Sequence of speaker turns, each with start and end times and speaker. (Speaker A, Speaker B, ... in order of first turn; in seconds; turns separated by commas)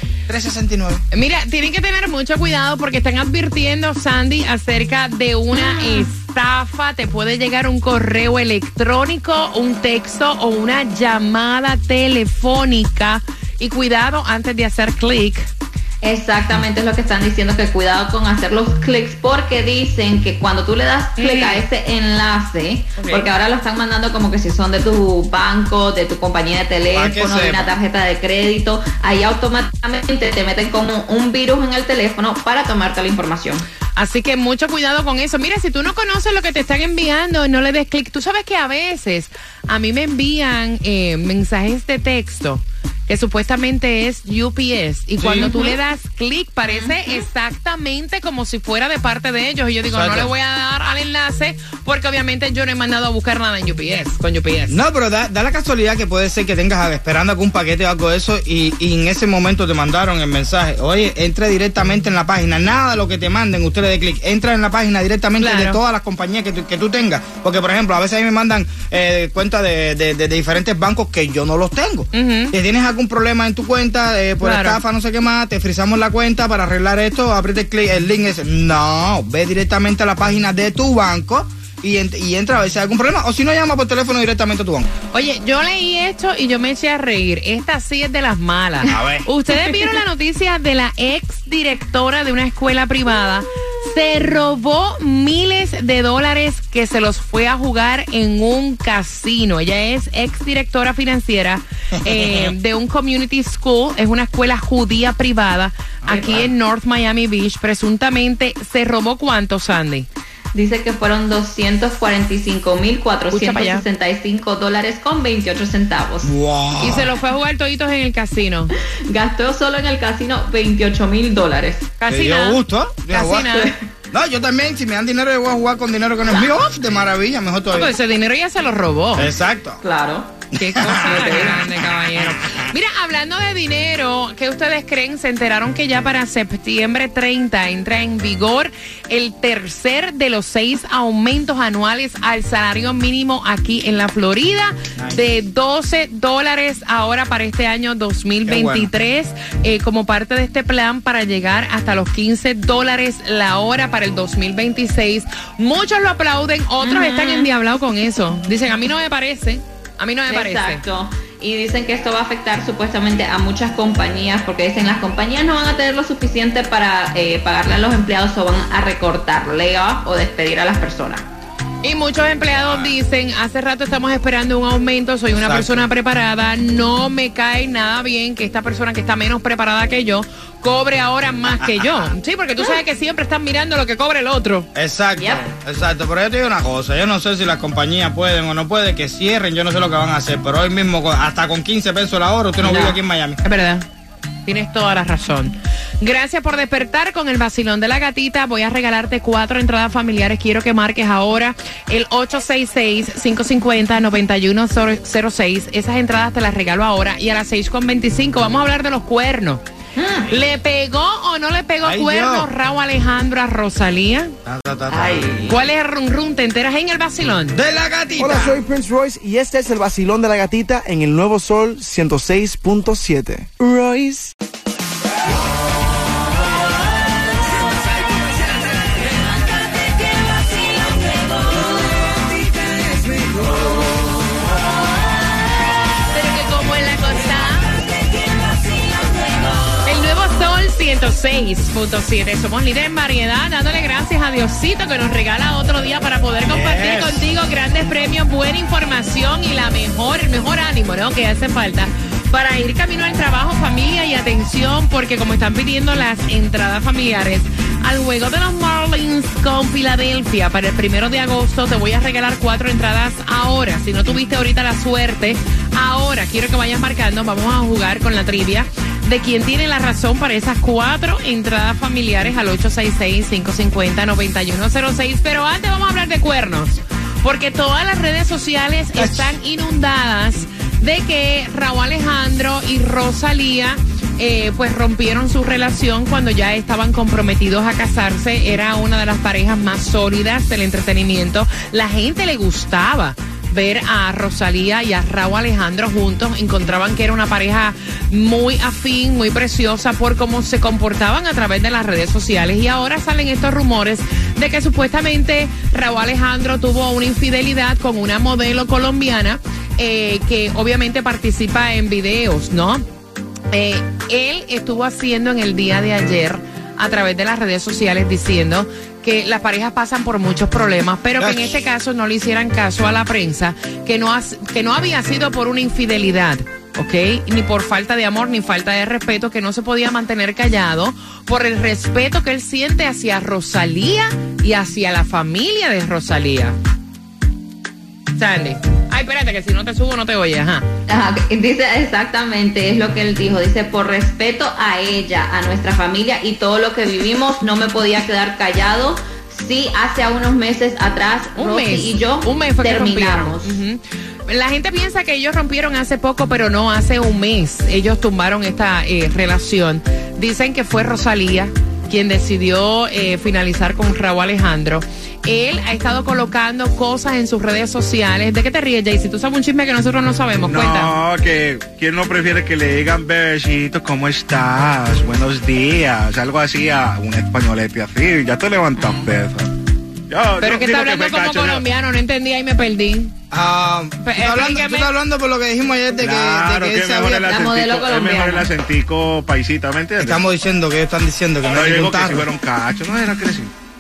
Speaker A: 0.3-1.0, Speaker B: 1.1-15.5, Speaker C: 5.5-6.1, Speaker C: 16.0-33.6, Speaker B: 21.2-21.6, Speaker B: 23.0-23.3, Speaker A: 26.9-27.8, Speaker B: 34.0-54.8, Speaker A: 45.2-45.7, Speaker C: 45.4-45.7, Speaker C: 46.6-47.1, Speaker A: 49.9-50.3, Speaker A: 54.7-84.9, Speaker B: 65.4-65.8, Speaker B: 72.1-72.5, Speaker B: 74.4-74.8, Speaker B: 85.1-110.1, Speaker A: 88.9-89.2, Speaker A: 102.1-102.5, Speaker A: 106.0-106.5, Speaker C: 110.5-116.3, Speaker B: 113.3-113.8, Speaker A: 116.2-117.1, Speaker B: 116.8-118.7, Speaker C: 119.1-121.9, Speaker B: 122.0-123.7, Speaker A: 122.1-123.5, Speaker C: 123.5-123.8, Speaker A: 124.1-127.9, Speaker C: 126.3-126.6, Speaker B: 127.7-129.3, Speaker A: 129.2-129.8, Speaker C: 129.8-130.3, Speaker B: 130.6-160.8, Speaker A: 130.8-131.6, Speaker C: 131.0-131.6, Speaker A: 132.1-132.7, Speaker A: 144.9-145.2, Speaker A: 148.4-148.9, Speaker C: 156.8-157.5, Speaker C: 160.3-171.2, Speaker B: 171.8-184.7, Speaker A: 175.3-175.9, Speaker A: 184.8-193.4, Speaker C: 185.2-185.4, Speaker C: 192.6-192.9, Speaker B: 193.4-193.8, Speaker B: 194.4-209.6, Speaker C: 210.0-210.3, Speaker B: 210.3-214.3, Speaker A: 211.8-212.5, Speaker A: 214.4-215.3, Speaker C: 214.9-215.5, Speaker B: 215.4-217.6, Speaker A: 217.5-218.6, Speaker D: 218.2-224.3, Speaker B: 236.1-237.8, Speaker B: 239.8-312.8, Speaker A: 246.5-247.2, Speaker A: 279.0-279.3, Speaker B: 313.5-336.6, Speaker A: 321.2-321.6, Speaker B: 338.1-340.6, Speaker C: 340.9-353.6, Speaker B: 351.4-370.9, Speaker E: 370.5-379.5, Speaker B: 378.8-379.1, Speaker E: 380.1-381.6, Speaker B: 380.4-383.1, Speaker A: 383.3-387.3, Speaker B: 384.0-384.9, Speaker E: 386.0-390.2, Speaker C: 387.2-388.5, Speaker A: 390.0-392.2, Speaker E: 391.4-393.5